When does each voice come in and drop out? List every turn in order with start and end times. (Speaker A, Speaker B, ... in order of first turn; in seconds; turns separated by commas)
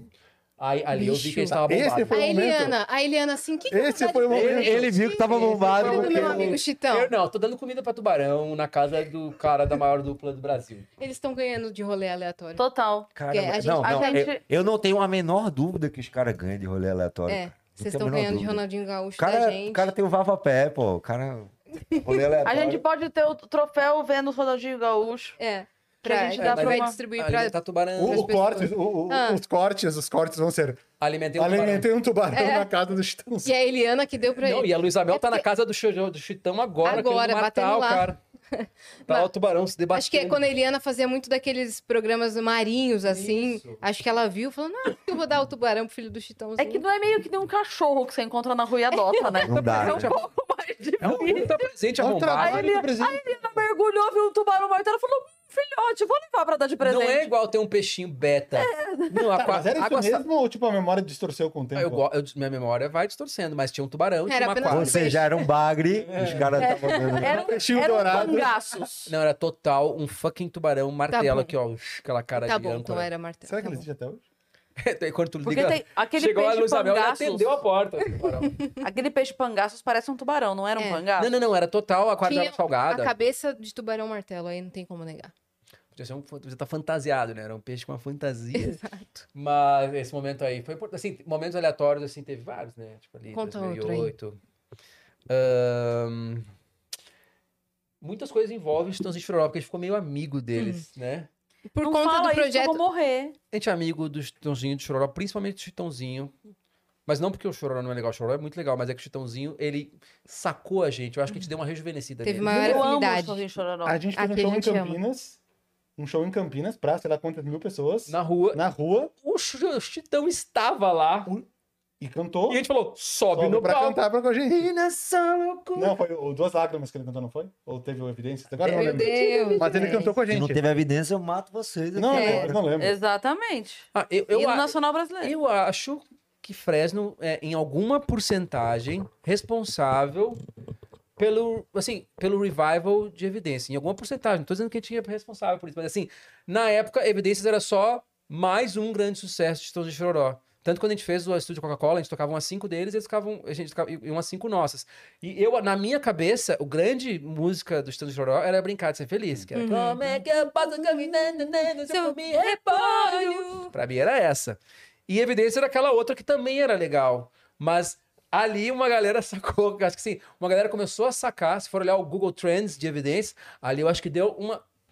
Speaker A: 0.6-2.3, Speaker B: 0.9-1.6, Speaker C: 1.6-2.8, Speaker B: 2.1-7.1, Speaker C: 3.7-4.9, Speaker A: 4.3-10.9, Speaker D: 4.4-6.6, Speaker B: 11.0-12.6, Speaker E: 12.6-13.1, Speaker D: 13.1-18.6, Speaker B: 13.3-14.3, Speaker E: 13.8-14.4, Speaker B: 17.3-19.9, Speaker D: 19.2-22.8, Speaker B: 22.0-22.2, Speaker E: 22.4-25.4, Speaker B: 25.4-29.4, Speaker E: 26.0-26.9, Speaker A: 26.4-28.3, Speaker C: 28.0-30.8, Speaker A: 31.0-31.9, Speaker C: 31.4-33.5, Speaker B: 32.3-32.7, Speaker B: 33.5-35.5, Speaker A: 34.4-38.2, Speaker B: 36.8-39.3, Speaker A: 39.1-40.4, Speaker B: 39.9-46.9, Speaker A: 43.0-43.8, Speaker E: 46.6-51.6, Speaker B: 48.9-49.8, Speaker D: 49.4-50.1, Speaker A: 49.9-50.1, Speaker A: 51.0-52.8, Speaker C: 52.0-53.6, Speaker E: 52.4-57.3, Speaker A: 56.8-60.2, Speaker E: 58.5-59.1, Speaker C: 59.4-62.0, Speaker A: 61.7-65.2, Speaker B: 64.3-65.5, Speaker D: 64.7-67.4, Speaker A: 66.0-66.7, Speaker E: 66.6-69.1, Speaker B: 66.9-67.3, Speaker C: 67.3-68.6, Speaker A: 69.1-73.1, Speaker B: 71.1-71.5, Speaker B: 72.4-73.8, Speaker C: 73.5-74.2, Speaker A: 74.8-78.6, Speaker E: 75.4-77.5, Speaker E: 78.8-81.3, Speaker B: 80.8-81.0, Speaker A: 81.2-83.1, Speaker B: 82.2-85.3, Speaker A: 86.0-88.8, Speaker B: 88.5-89.2, Speaker A: 89.3-94.4, Speaker B: 93.3-94.1, Speaker A: 95.3-96.5, Speaker A: 98.0-101.3, Speaker B: 100.5-100.8, Speaker B: 101.7-102.8, Speaker E: 101.8-103.3, Speaker A: 103.5-106.3, Speaker A: 107.1-112.8, Speaker B: 112.2-113.4, Speaker E: 112.5-114.0, Speaker C: 112.5-112.8, Speaker C: 113.9-115.4, Speaker B: 114.1-115.0, Speaker C: 116.0-119.1, Speaker A: 118.1-118.6, Speaker A: 119.2-121.3, Speaker C: 122.0-122.6, Speaker A: 122.5-124.0, Speaker C: 123.3-124.7, Speaker A: 124.5-125.9, Speaker C: 125.7-130.6, Speaker B: 128.6-130.1, Speaker A: 128.8-129.5, Speaker E: 129.1-130.1, Speaker D: 130.3-132.6, Speaker C: 131.9-132.9, Speaker B: 132.1-132.5, Speaker E: 132.8-135.3, Speaker A: 133.9-140.4, Speaker A: 141.2-174.6, Speaker B: 159.6-163.7